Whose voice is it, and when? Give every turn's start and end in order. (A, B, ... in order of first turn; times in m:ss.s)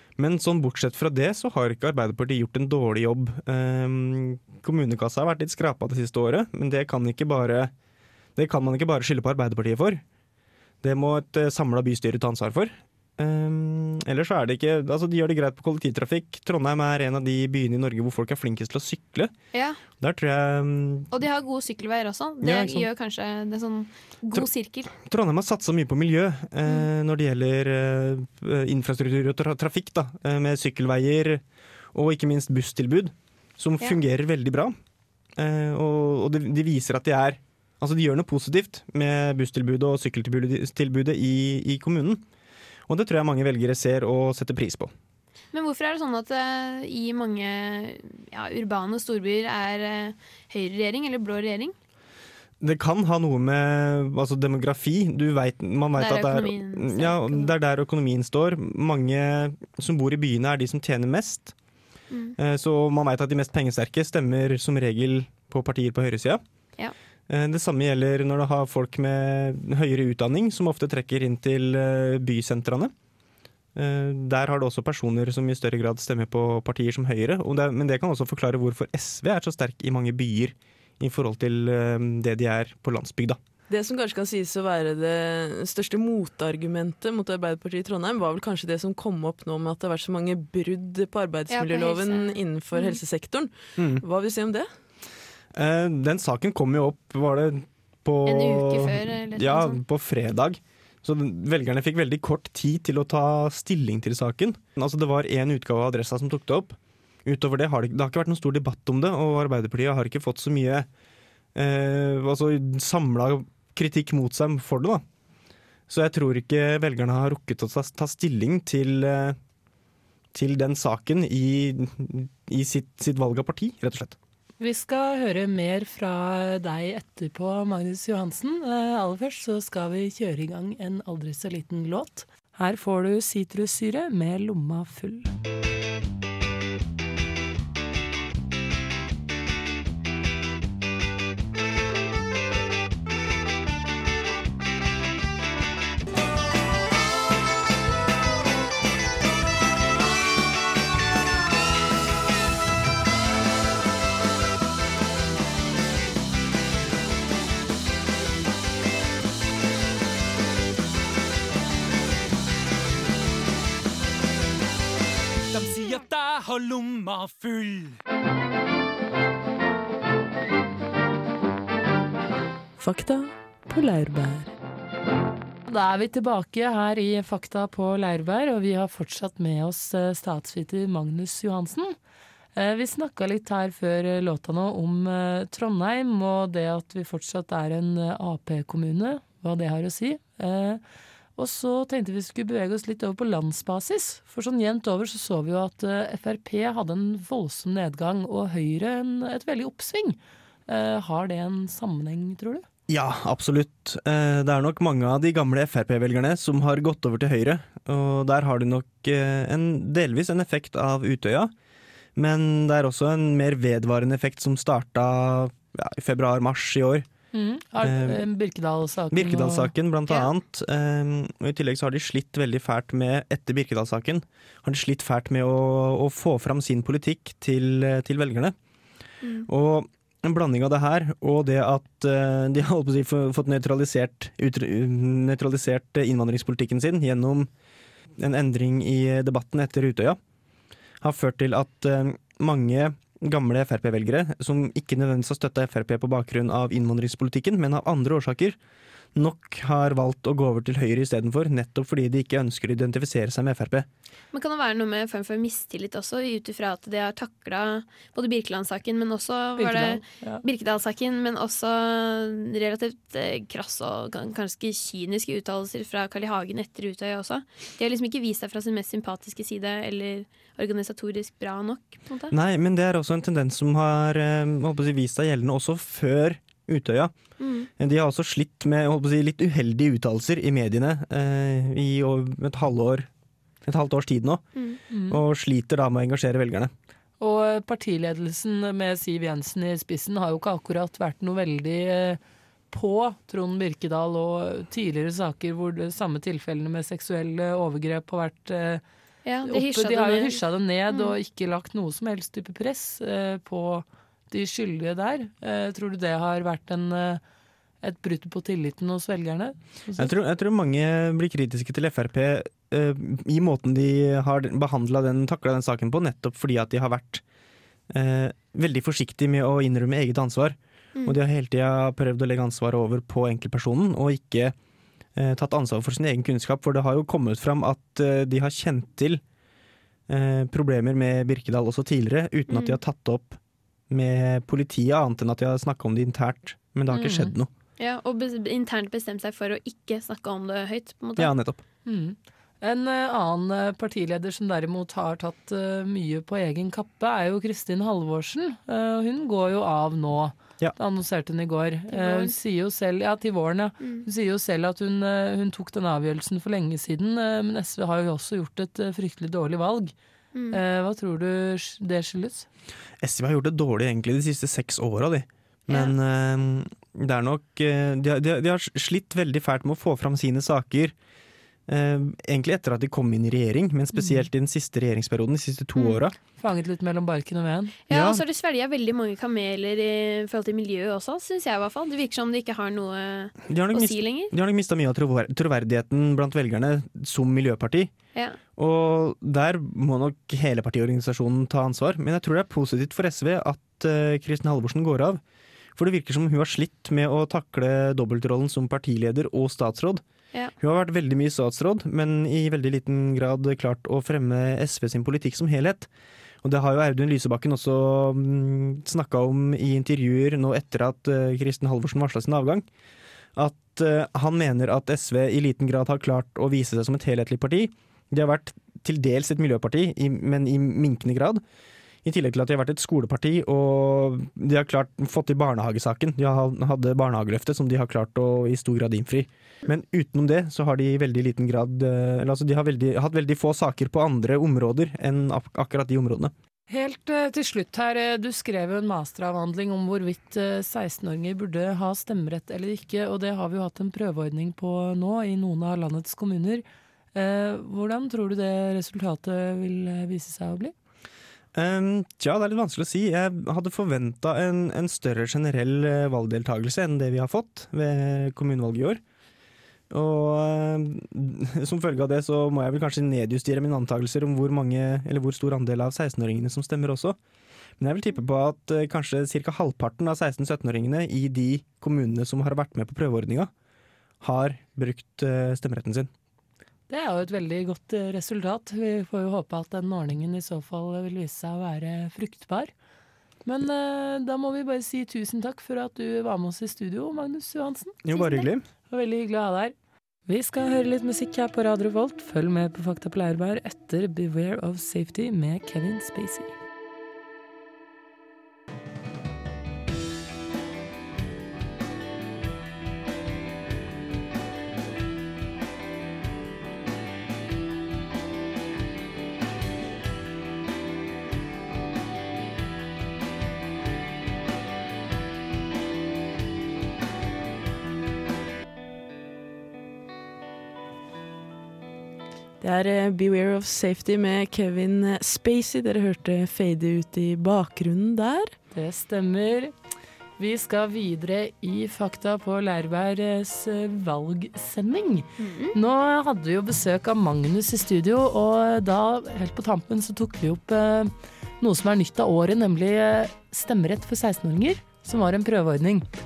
0:00.2-0:07.7 A
0:08.4-0:10.0 A
0:10.8-0:19.3 A
0:19.5-0:19.8 B
0:20.0-0:21.1 A
0:21.1-0:24.9 B
0:22.4-0:22.8 A
0:24.3-0:31.4 A
0:31.9-0:34.8 A
0:35.4-0:42.2 A
0:42.9-0:44.9 A
0:45.5-0:51.8 B
0:52.6-1:01.5 A
0:56.0-0:57.5 B
1:02.1-1:02.4 B
1:02.4-1:06.4 A
1:07.3-1:12.9 A
1:13.8-1:23.4 A
1:23.7-1:34.7 C
1:31.5-1:33.0 B
1:33.8-1:34.0 A
1:35.5-1:50.9 A
1:38.2-1:39.8 B
1:51.6-1:55.0 A
1:55.9-1:59.4 A
2:00.3-2:04.2 A
2:04.6-2:15.3 D
2:45.6-2:47.8 E
2:52.8-2:54.5 C
2:55.7-3:02.0 D
3:02.6-3:10.8 D
3:11.4-3:22.6 D
3:22.9-3:31.5 A
3:32.2-3:37.1 A
3:37.3-3:39.7 D
3:37.8-3:38.3 A
3:39.1-3:48.6 A
3:49.2-3:49.5 B
3:49.5-3:57.5 A
3:58.2-4:00.2 A
4:01.0-4:08.6 A
4:09.1-4:13.9 A
4:14.3-4:32.3 B
4:19.6-4:20.4 D
4:32.3-4:37.1 A
4:37.4-4:37.7 B
4:37.8-4:43.1 A
4:43.6-4:44.4 A
4:44.9-4:45.2 D
4:45.1-4:46.7 A
4:47.2-4:52.2 D
4:52.7-4:58.8 D
4:59.2-5:01.1 B
4:59.5-5:07.2 D
5:07.8-5:10.1 D
5:10.0-5:17.2 A
5:17.9-5:24.6 A
5:25.2-5:29.2 A
5:30.1-5:33.4 A
5:32.5-5:32.8 B
5:33.9-5:37.5 A
5:36.9-5:37.4 D
5:37.8-5:41.3 B
5:41.2-5:41.6 A
5:41.8-5:59.9 D
5:51.9-5:52.3 B
5:53.8-5:54.0 B
6:00.3-6:00.6 B
6:00.5-6:02.5 D
6:03.0-6:10.9 A
6:11.7-6:16.1 A
6:13.9-6:14.3 D
6:15.8-6:16.0 B
6:16.4-6:17.7 D
6:17.9-6:24.3 B
6:17.9-6:18.2 A
6:23.5-6:27.9 A
6:28.6-6:35.2 A
6:35.8-6:40.0 A
6:40.6-6:45.9 A
6:46.4-6:52.6 A
6:53.4-7:01.4 A
7:02.0-7:16.3 A
7:16.7-7:26.6 D
7:27.1-7:30.7 D
7:31.5-7:39.0 A
7:39.9-7:47.2 A
7:47.8-7:53.5 A
7:54.2-7:56.1 A
7:56.9-8:02.7 D
8:03.4-8:08.0 D
8:08.0-8:08.6 A
8:08.1-8:08.5 B
8:08.9-8:09.7 D
8:10.3-8:16.5 D
8:42.6-8:48.6 C
8:48.7-8:49.7 D
8:50.4-9:06.1 D
8:55.4-8:55.8 B